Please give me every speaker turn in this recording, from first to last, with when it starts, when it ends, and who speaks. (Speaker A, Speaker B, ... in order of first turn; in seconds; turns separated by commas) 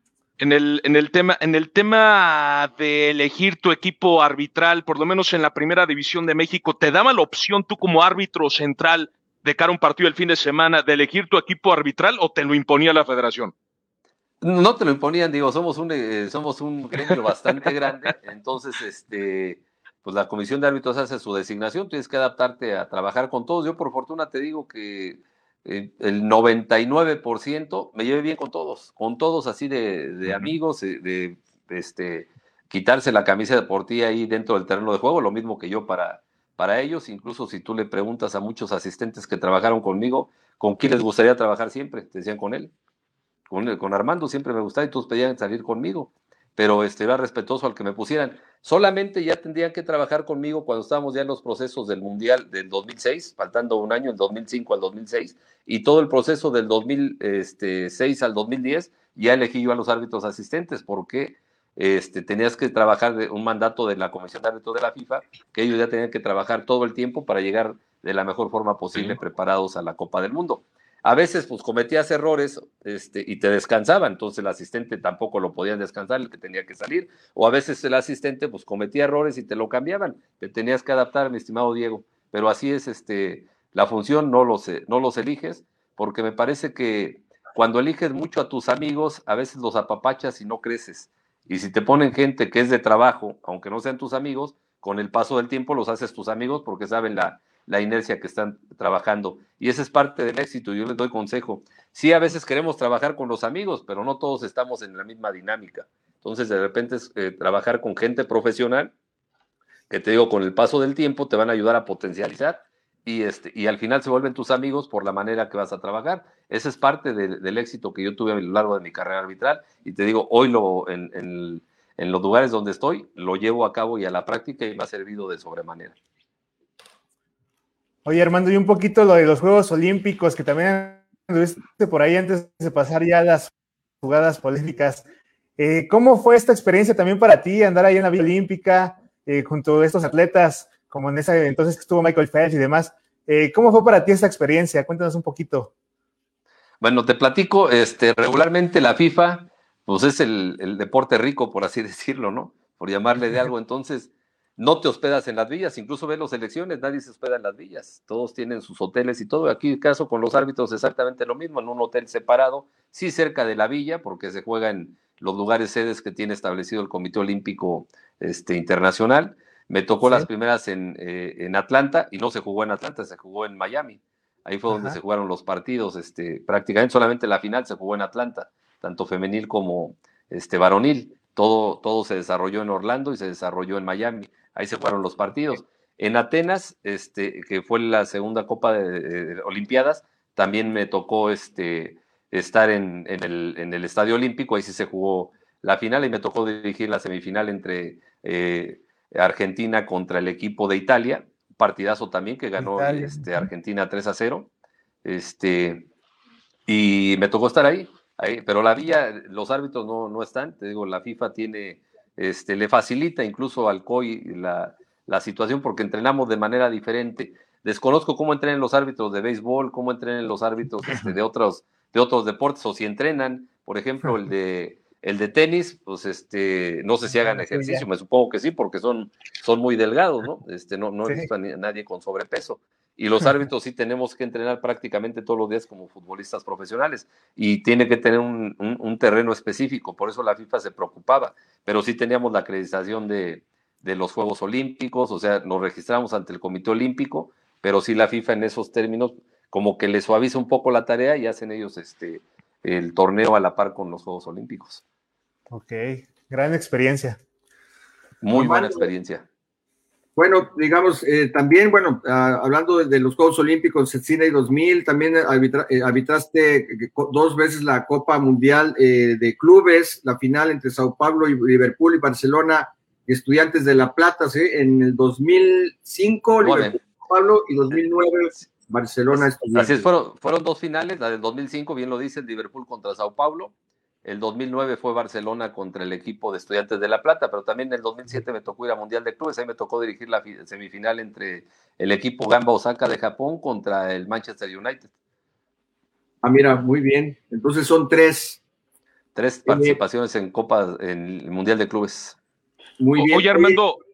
Speaker A: 0.4-13.5, Speaker B: 14.4-42.7, Speaker B: 43.5-108.9, Speaker B: 109.9-126.0, Speaker C: 128.1-133.5, Speaker C: 134.0-135.0, Speaker C: 135.6-145.7, Speaker B: 146.8-204.5, Speaker C: 174.7-175.0, Speaker C: 202.6-203.5, Speaker B: 205.0-205.9, Speaker B: 206.7-254.8, Speaker C: 227.3-227.8, Speaker C: 255.5-257.2, Speaker B: 258.2-259.3, Speaker D: 258.3-258.9, Speaker D: 260.2-279.9, Speaker B: 276.4-276.8, Speaker B: 279.1-283.5, Speaker B: 284.0-294.9, Speaker D: 296.2-298.4, Speaker B: 299.1-302.2, Speaker D: 299.5-299.8, Speaker D: 302.8-303.6, Speaker A: 303.0-303.8